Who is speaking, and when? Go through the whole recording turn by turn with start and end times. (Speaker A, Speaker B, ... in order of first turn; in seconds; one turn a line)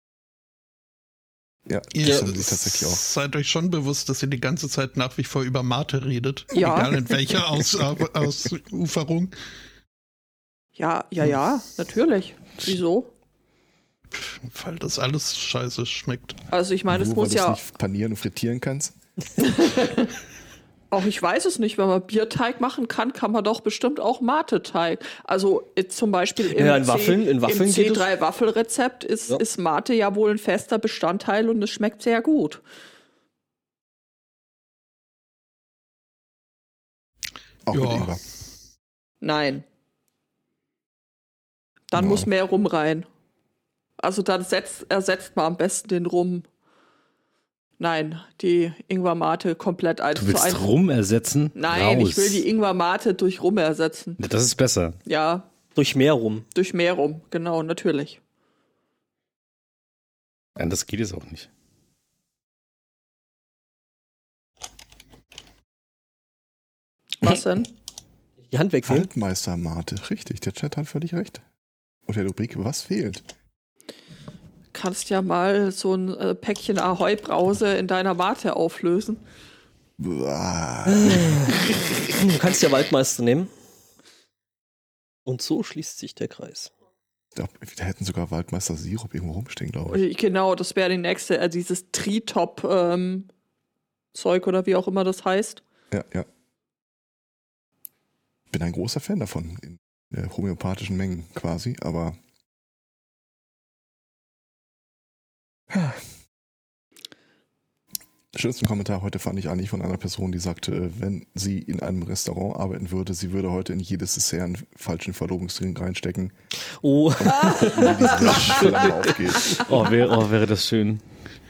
Speaker A: 1.7-3.0
Speaker B: 1.9-9.3
Speaker C: 6.5-7.0
Speaker C: 10.8-13.1
Speaker B: 14.1-16.4
Speaker C: 16.5-17.6
Speaker A: 16.9-18.9
Speaker C: 19.4-20.1
Speaker C: 20.9-32.6
Speaker D: 26.5-28.1
Speaker A: 37.7-38.2
Speaker B: 37.7-38.1
Speaker C: 39.2-39.6
Speaker C: 41.9-43.1
Speaker A: 42.0-42.3
Speaker C: 44.0-46.5
Speaker C: 47.8-50.7
Speaker E: 50.1-52.4
Speaker C: 51.6-54.2
Speaker E: 54.2-55.0
Speaker C: 55.1-55.5
Speaker D: 55.7-56.5
Speaker C: 56.5-58.2
Speaker E: 60.6-61.5
Speaker C: 67.2-67.7
Speaker D: 68.5-69.1
Speaker A: 68.8-71.4
Speaker A: 72.1-73.2
Speaker C: 74.7-79.2
Speaker A: 80.0-81.5
Speaker D: 80.9-83.5
Speaker D: 85.2-86.7
Speaker A: 87.3-90.0
Speaker C: 89.9-93.3
Speaker C: 94.1-95.6
Speaker A: 95.9-96.3
Speaker A: 98.5-102.2
Speaker A: 105.7-106.0
Speaker A: 108.3-116.3
Speaker D: 116.8-119.5
Speaker A: 117.2-119.6
Speaker C: 117.3-118.9
Speaker E: 119.5-121.0